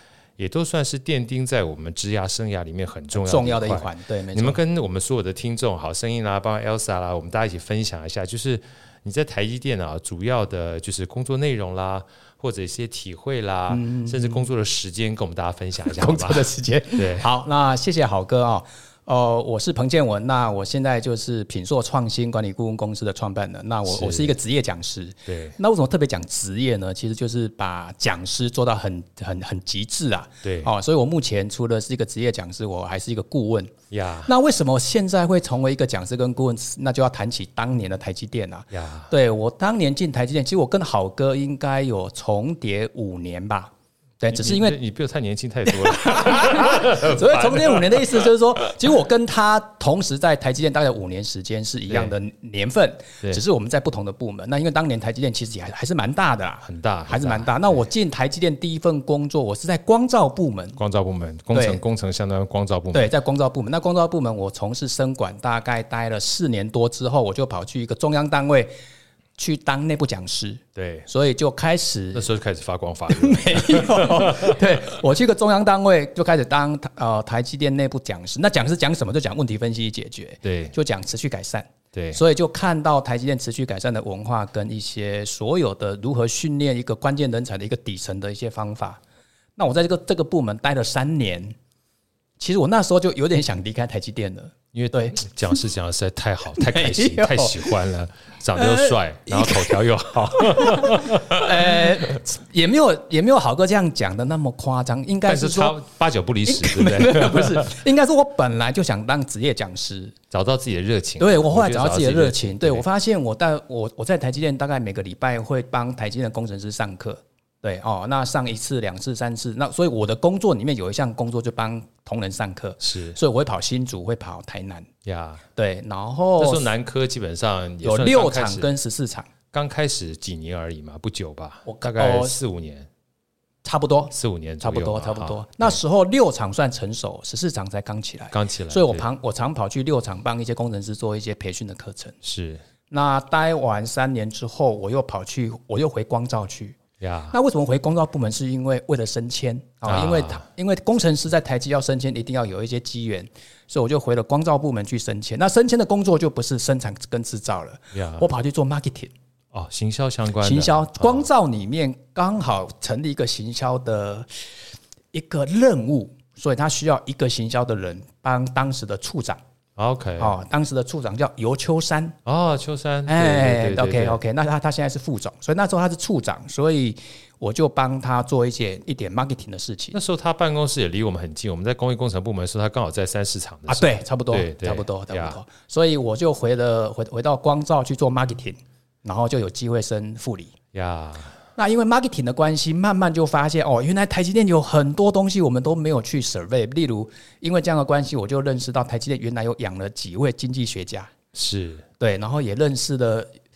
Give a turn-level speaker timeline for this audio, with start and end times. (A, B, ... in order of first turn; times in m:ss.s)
0:00.4-0:17.3 A
0:03.1-0:04.6 B
0:13.7-0:14.4 B
0:15.9-0:33.7 B
0:23.9-0:24.3 A
0:25.3-0:25.6 A
0:30.4-0:30.7 A
0:33.9-0:34.3 A
0:34.3-0:44.8 B
0:38.7-0:39.1 A
0:44.3-0:48.3 A
0:45.6-1:00.8 B
0:51.9-0:52.1 A
0:56.6-0:57.6 A
1:00.8-1:03.1 A
1:01.5-1:01.8 B
1:02.9-1:08.7 B
1:09.4-1:12.3 B
1:10.8-1:11.1 A
1:12.1-1:14.6 A
1:13.1-1:29.0 B
1:20.4-1:20.7 A
1:21.9-1:22.2 A
1:29.6-1:31.6 B
1:32.4-1:35.2 B
1:34.7-1:41.9 A
1:36.6-1:37.8 B
1:38.6-1:45.8 B
1:45.3-1:47.8 A
1:46.4-1:50.2 B
1:50.3-1:52.8 A
1:51.2-2:04.9 B
2:02.8-2:03.2 A
2:05.0-2:05.4 A
2:05.6-2:06.7 B
2:06.4-2:08.7 A
2:07.8-2:09.3 B
2:09.5-2:12.9 A
2:11.6-2:12.4 B
2:13.6-2:22.2 B
2:14.1-2:15.8 A
2:18.3-2:19.0 A
2:22.2-2:22.6 A
2:22.9-2:26.8 B
2:27.0-2:27.4 A
2:27.3-2:39.1 B
2:29.8-2:30.4 A
2:37.9-2:38.3 A
2:39.5-2:41.2 A
2:40.4-2:44.3 B
2:45.1-2:49.4 B
2:49.8-2:50.3 A
2:50.2-2:52.2 B
2:52.2-2:54.2 A
2:53.1-3:00.0 B
2:59.9-3:05.4 A
3:03.7-3:10.5 B
3:10.7-3:11.3 A
3:11.6-3:21.1 B
3:21.3-3:21.8 A
3:22.0-3:23.4 B